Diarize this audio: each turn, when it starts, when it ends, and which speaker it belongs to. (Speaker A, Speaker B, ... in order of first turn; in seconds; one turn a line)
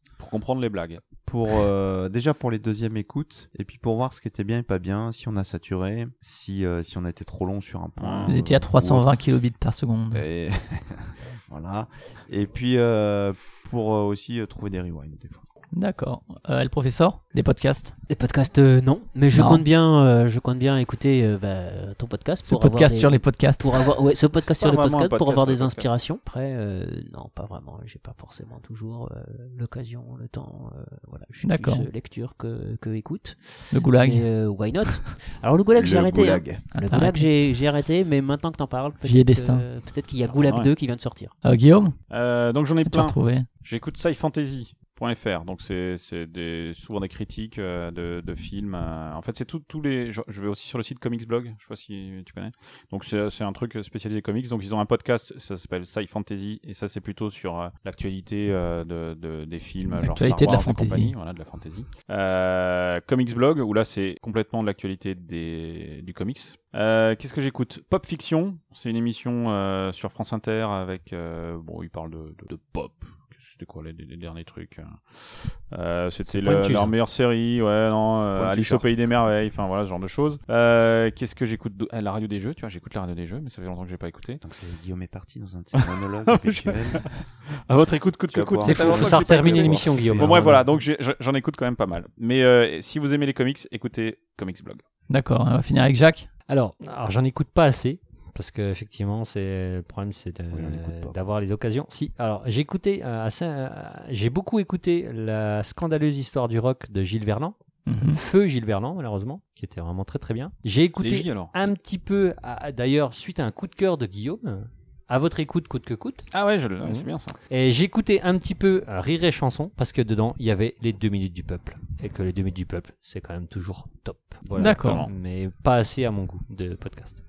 Speaker A: 0.2-1.0
Speaker B: 1.3-9.2
Speaker A: 8.0-8.4
Speaker C: 8.2-10.2
Speaker B: 10.1-15.4
Speaker C: 15.7-18.0
Speaker D: 18.1-41.3
Speaker C: 19.3-19.6
Speaker C: 22.4-23.9
Speaker A: 24.4-25.9
Speaker C: 31.4-31.9
Speaker C: 33.7-34.3
Speaker B: 35.7-36.7
Speaker C: 36.8-37.3
Speaker C: 39.0-39.6
Speaker A: 40.3-40.7
Speaker C: 41.4-42.0
Speaker A: 42.1-84.4
Speaker C: 42.9-43.5
Speaker C: 59.9-61.1
Speaker C: 76.3-76.9
Speaker B: 78.4-78.9
Speaker B: 84.4-87.1
Speaker A: 85.8-94.8
Speaker B: 88.3-90.5
Speaker E: 88.6-90.7
Speaker C: 95.1-96.3
Speaker E: 96.5-116.2
Speaker B: 100.5-101.2
Speaker C: 107.9-108.2
Speaker A: 111.0-111.5
Speaker A: 116.3-117.4
Speaker E: 116.8-127.1
Speaker A: 124.6-125.1
Speaker C: 124.6-125.1